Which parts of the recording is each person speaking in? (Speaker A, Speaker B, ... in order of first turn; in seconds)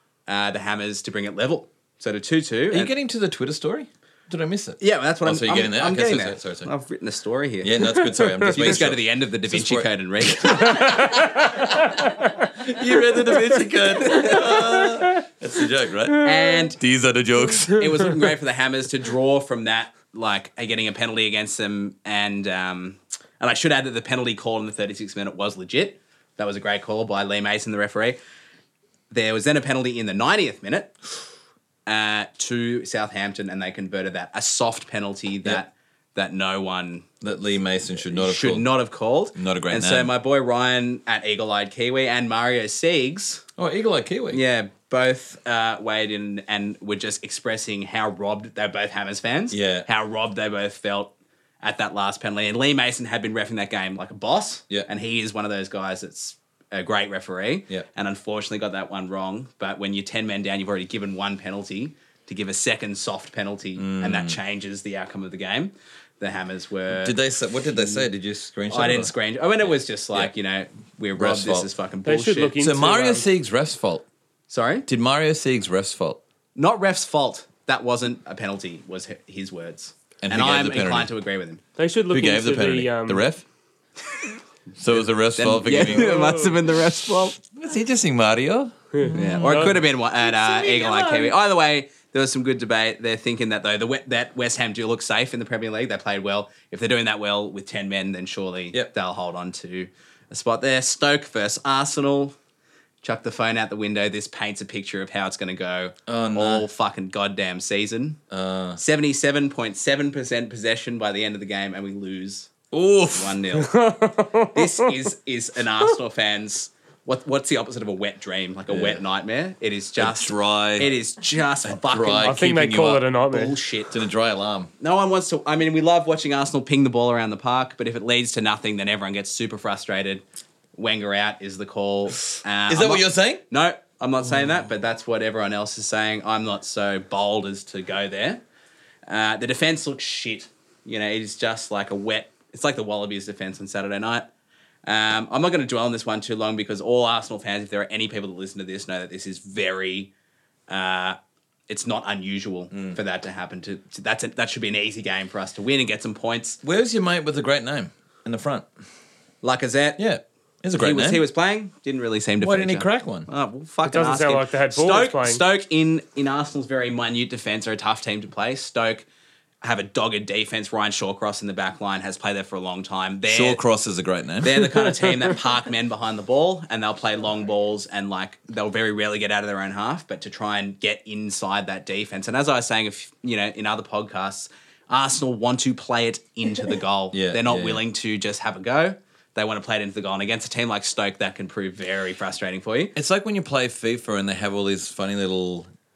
Speaker A: 0.3-2.9, 4.8-7.8, 8.5-10.9, 14.0-14.4, 16.2-16.8, 17.7-28.2, 29.1-31.0, 31.9-37.1, 38.1-43.5, 44.3-67.2, 67.7-68.1, 68.7-72.5, 74.5-74.9, 76.6-81.6, 85.4-87.4, 89.2-102.3, 103.0-108.2, 108.8-112.5, 113.1-113.8, 114.5-122.3, 123.3-123.9, 124.8-130.2, 130.8-138.4, 139.1-144.3, 144.9-150.1, 150.7-151.2, 151.7-156.6, 159.4-160.0, 160.8-169.1, 169.6-173.6, 174.4-192.9
Speaker B: 2.7-6.7, 7.6-11.9, 12.6-17.9, 37.2-38.7, 39.4-40.1, 43.6-44.4, 49.5-49.9, 63.8-64.4, 67.0-69.1, 71.2-71.7, 72.6-74.0, 74.9-76.2, 80.2-81.1, 82.1-83.4, 84.8-86.5, 87.5-91.3, 106.1-106.7, 108.3-108.8, 112.7-113.4, 118.7-119.0, 120.0-120.9, 121.7-123.0, 123.9-124.7, 132.3-133.4, 152.7-153.0, 156.6-158.7, 160.0-161.2, 162.4-163.3, 173.3-174.6, 187.1-187.8, 192.9-195.7
Speaker C: 7.8-8.6, 10.6-12.5, 14.1-15.1, 72.1-73.3, 81.8-83.3, 85.8-86.6, 89.0-89.7, 113.6-114.9, 122.2-123.5, 163.9-165.4